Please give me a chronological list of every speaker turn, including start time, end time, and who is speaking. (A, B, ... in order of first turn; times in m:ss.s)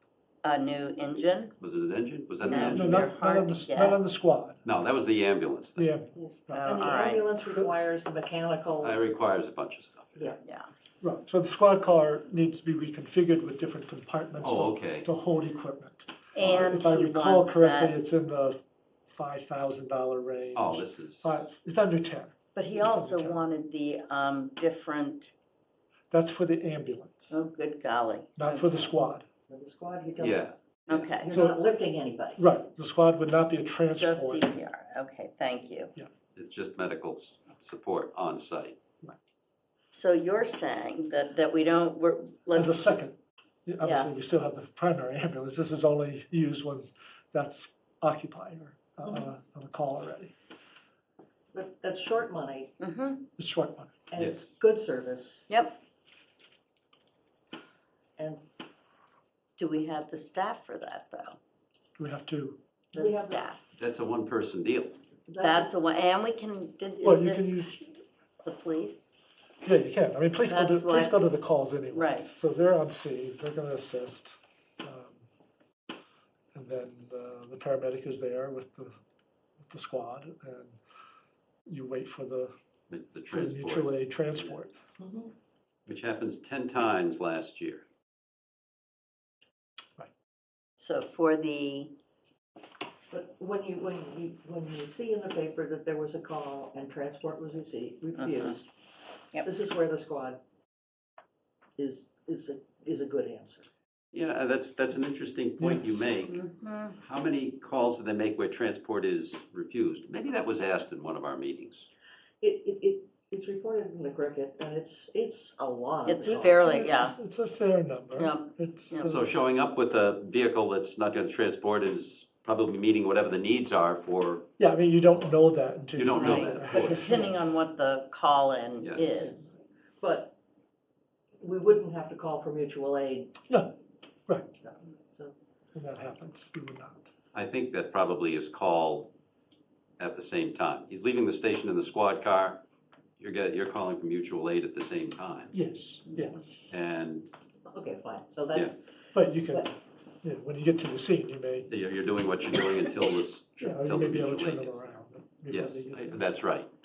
0:00.4-0:01.6 A
0:01.6-0:03.1 B
0:02.4-0:04.0 A
0:02.5-0:04.6 C
0:04.6-0:05.9 B
0:05.8-0:06.9 C
0:06.1-0:09.0 D
0:06.5-0:07.2 A
0:08.8-0:10.3 B
0:10.4-0:10.7 A
0:11.0-0:23.4 C
0:14.4-0:15.1 B
0:16.3-0:18.0 A
0:20.5-0:21.4 B
0:22.5-0:25.3 A
0:26.1-0:27.4 C
0:27.3-0:28.8 A
0:28.4-0:29.2 C
0:29.5-0:30.4 D
0:30.2-0:31.1 B
0:30.9-0:31.3 A
0:31.2-0:32.4 D
0:31.3-0:31.6 C
0:32.4-0:34.5 C
0:33.9-0:35.9 A
0:36.3-0:38.8 B
0:39.9-0:43.1 A
0:42.5-0:50.3 C
0:43.8-0:44.1 A
0:49.0-0:49.3 D
0:51.5-0:52.7 D
0:52.8-0:53.2 A
0:53.4-0:54.0 C
0:54.1-0:55.5 D
0:54.2-0:54.5 B
0:55.5-0:55.8 A
0:58.2-0:58.4 D
0:59.6-1:01.4 A
1:02.0-1:02.6 C
1:02.9-1:03.5 D
1:02.9-1:03.6 A
1:03.8-1:05.0 B
1:05.3-1:05.7 D
1:05.4-1:07.9 A
1:07.0-1:07.8 C
1:08.4-1:09.0 A
1:09.6-1:15.3 C
1:10.4-1:11.3 A
1:11.9-1:12.3 A
1:16.5-1:18.9 C
1:19.6-1:20.8 C
1:21.7-1:22.5 C
1:22.9-1:24.5 B
1:23.3-1:24.8 C
1:25.0-1:25.3 D
1:25.9-1:27.8 B
1:30.8-1:31.9 A
1:33.1-1:38.7 D
1:38.2-1:38.6 A
1:39.4-1:40.4 D
1:41.8-1:43.7 D
1:44.1-1:46.4 B
1:45.6-1:46.0 C
1:46.3-1:47.0 A
1:47.0-1:51.9 B
1:52.4-1:56.6 D
1:56.0-1:57.2 A
1:56.2-1:59.2 C
1:58.2-1:59.2 A
1:59.0-2:04.4 B
2:04.6-2:07.3 C
2:06.0-2:07.2 B
2:06.1-2:09.5 A
2:08.8-2:09.2 B
2:09.0-2:10.3 D
2:11.4-2:13.3 D
2:14.3-2:14.5 C
2:14.6-2:15.3 D
2:15.7-2:17.1 C
2:17.3-2:19.1 B
2:20.0-2:22.6 B
2:23.2-2:25.5 B
2:25.5-2:26.7 C
2:26.7-2:27.3 B
2:27.7-2:28.8 D
2:29.1-2:31.7 C
2:31.7-2:34.9 B
2:33.6-2:36.3 C
2:35.5-2:36.7 B